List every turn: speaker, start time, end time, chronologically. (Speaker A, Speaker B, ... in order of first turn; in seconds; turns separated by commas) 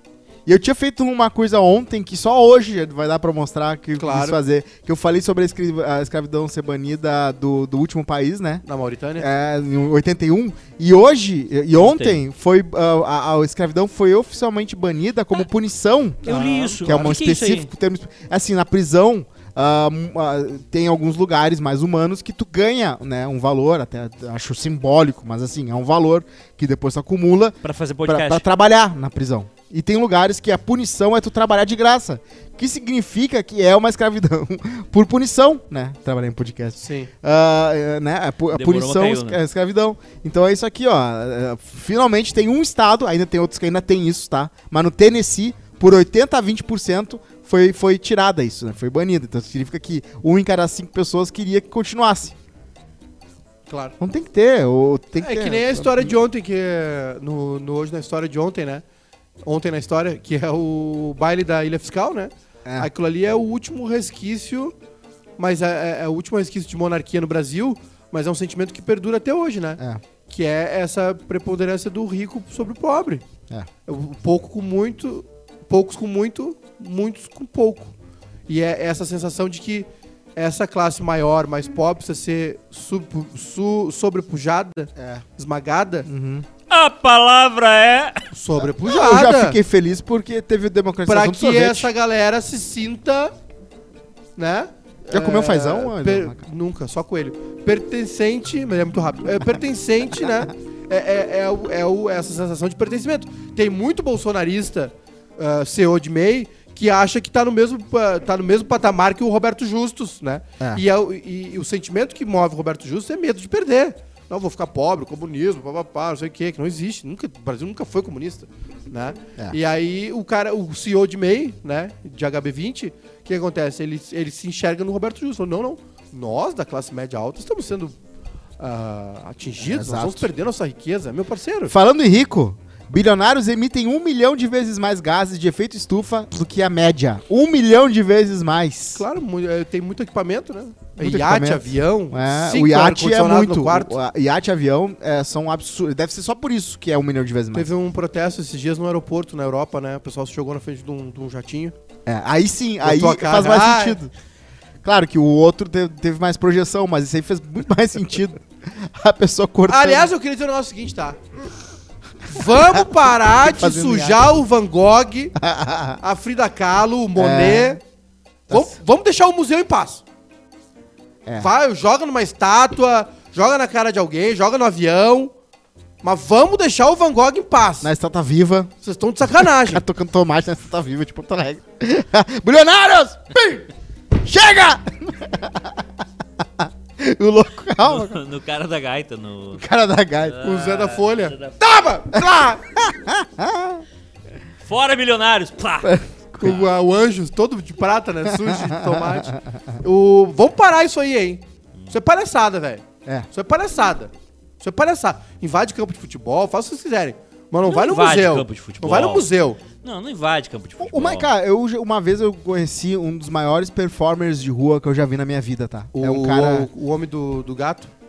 Speaker A: 0.5-8.6, Speaker B: 4.0-4.4, Speaker B: 8.6-9.3, Speaker A: 9.2-52.3, Speaker C: 11.7-12.2, Speaker C: 16.2-17.7, Speaker B: 16.2-16.9, Speaker C: 27.6-28.4, Speaker B: 36.8-37.1, Speaker C: 38.5-39.4, Speaker B: 53.7-53.9, Speaker A: 54.0-56.1, Speaker B: 55.2-58.8, Speaker B: 59.4-64.7, Speaker A: 62.6-62.9, Speaker B: 65.4-73.2, Speaker B: 73.8-77.9, Speaker B: 78.5-86.1, Speaker A: 85.0-85.2, Speaker A: 86.0-86.5, Speaker C: 86.7-88.2, Speaker B: 88.3-89.6, Speaker A: 88.8-91.9, Speaker B: 91.0-93.3, Speaker B: 94.3-128.0, Speaker A: 95.1-96.4, Speaker B: 128.6-131.7, Speaker A: 129.6-130.3, Speaker A: 131.7-139.0, Speaker B: 138.9-144.0, Speaker A: 141.0-147.7, Speaker B: 147.5-151.7, Speaker A: 152.1-154.1, Speaker B: 152.8-154.0, Speaker A: 154.8-160.1, Speaker B: 159.7-161.2, Speaker B: 162.3-165.3, Speaker A: 162.6-162.8, Speaker A: 163.4-164.2, Speaker A: 165.4-166.0, Speaker B: 166.0-167.8, Speaker A: 167.2-167.8, Speaker A: 168.5-168.7, Speaker B: 168.5-170.0, Speaker B: 171.4-175.3, Speaker B: 176.0-177.9, Speaker A: 177.8-178.7, Speaker B: 178.8-179.8, Speaker A: 179.4-183.7, Speaker A: 184.2-185.8, Speaker A: 186.4-188.2, Speaker C: 187.8-189.6, Speaker A: 189.5-190.4, Speaker C: 190.2-191.5, Speaker B: 190.4-192.3, Speaker A: 192.1-193.8, Speaker C: 194.6-196.7, Speaker A: 195.8-196.6, Speaker B: 196.4-209.6, Speaker A: 198.3-199.6, Speaker C: 207.6-211.3, Speaker A: 210.8-216.7, Speaker B: 215.9-217.9